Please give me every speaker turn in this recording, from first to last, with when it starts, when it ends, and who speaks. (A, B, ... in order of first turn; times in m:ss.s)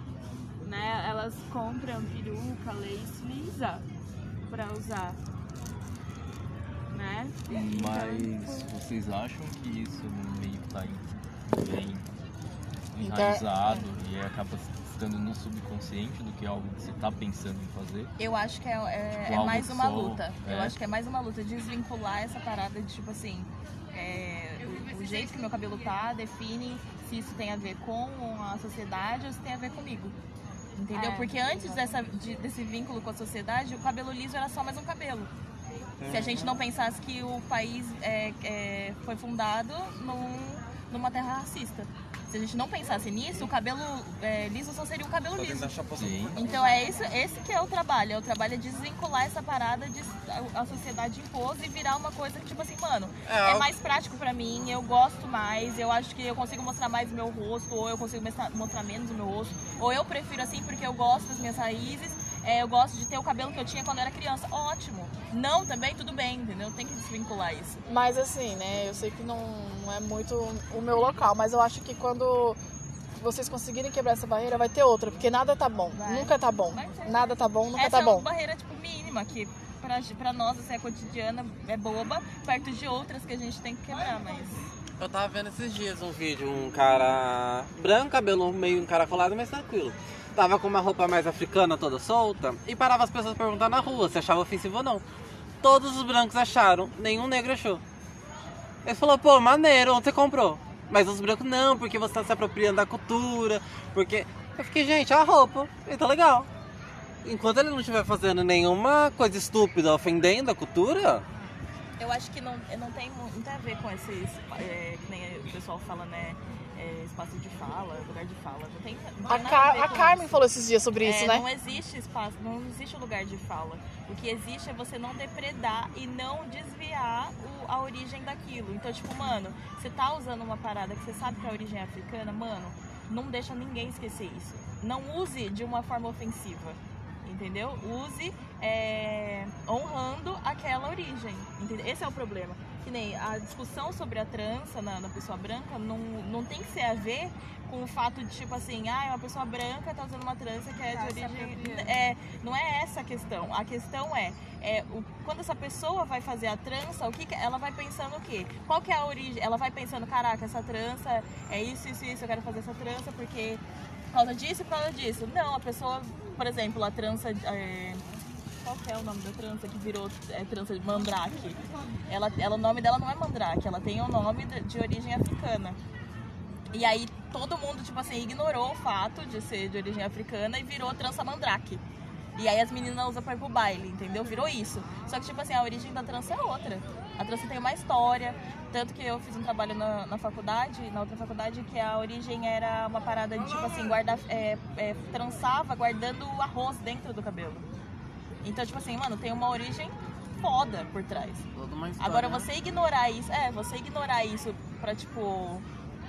0:00.6-0:03.8 A
0:04.4-0:05.2 A
0:06.9-0:08.7 A
0:07.5-0:12.1 B
0:12.9-0:18.1 B
0:13.0-0:13.9 C
0:18.2-0:30.2 D
0:19.1-0:20.8 B
0:24.6-0:26.0 A
0:30.8-0:35.3 D
0:30.9-0:32.0 A
0:36.0-0:36.6 E
0:36.1-0:45.8 D
0:45.4-0:46.9 E
0:46.0-0:46.4 B
0:46.4-1:07.8 D
0:53.3-0:53.7 E
1:07.9-1:12.6 C
1:13.2-1:18.3 C
1:15.9-1:24.7 D
1:25.0-1:35.0 E
1:35.6-1:37.8 E
1:38.8-1:46.5 E
1:47.2-1:51.2 E
1:52.0-2:00.3 D
1:59.2-2:01.4 C
2:01.0-2:48.0 D
2:30.8-2:32.0 A
2:48.6-2:55.8 D
2:56.7-3:01.8 D
3:02.4-3:17.7 D
3:18.4-3:21.5 D
3:21.6-3:22.5 E
3:22.0-3:25.7 D